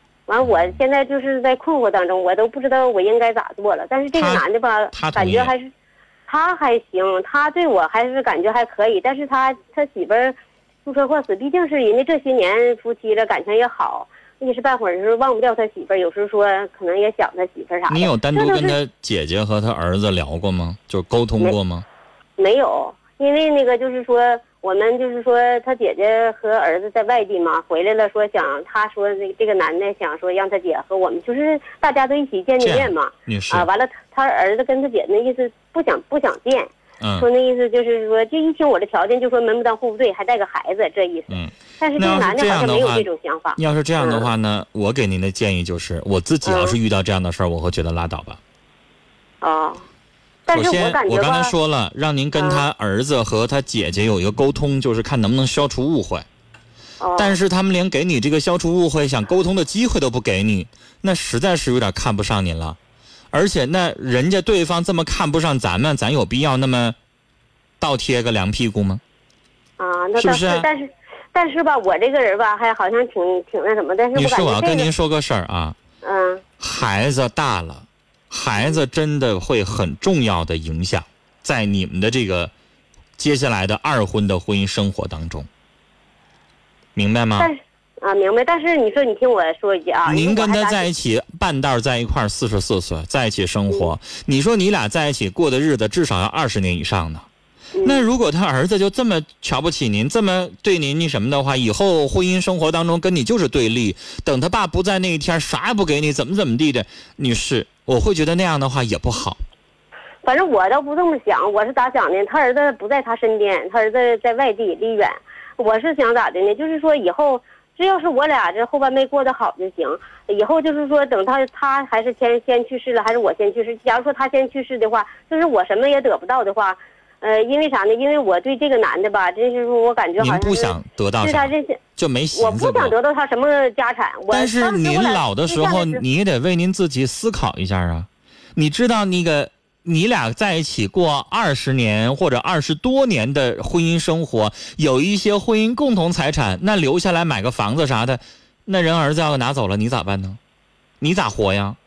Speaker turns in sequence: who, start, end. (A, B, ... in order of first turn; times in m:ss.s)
0:00.3-0:05.7 A
0:04.2-0:05.5 B
0:06.3-0:10.4 A
0:10.9-0:18.8 A
0:17.9-0:21.8 B
0:22.4-0:44.3 A
0:32.6-0:33.7 B
0:37.0-0:37.3 B
0:41.3-0:43.1 B
0:43.6-0:48.4 B
0:46.4-0:46.8 A
0:49.4-0:49.8 A
0:50.5-0:51.5 A
0:50.5-0:56.3 B
0:52.3-0:52.6 A
0:57.0-0:57.4 A
0:57.2-1:02.8 B
1:03.3-1:07.0 B
1:07.8-1:09.0 B
1:09.8-1:14.9 A
1:10.2-1:10.7 B
1:14.2-1:15.8 B
1:16.0-1:16.4 A
1:16.6-1:22.5 B
1:23.2-1:25.5 B
1:27.0-1:27.5 B
1:27.4-1:30.9 A
1:30.1-1:37.3 B
1:37.8-1:38.1 A
1:37.8-1:49.4 B
1:50.2-2:11.8 A
2:10.2-2:12.9 B
2:12.3-2:16.0 A
2:14.3-2:30.4 B
2:31.0-2:31.8 B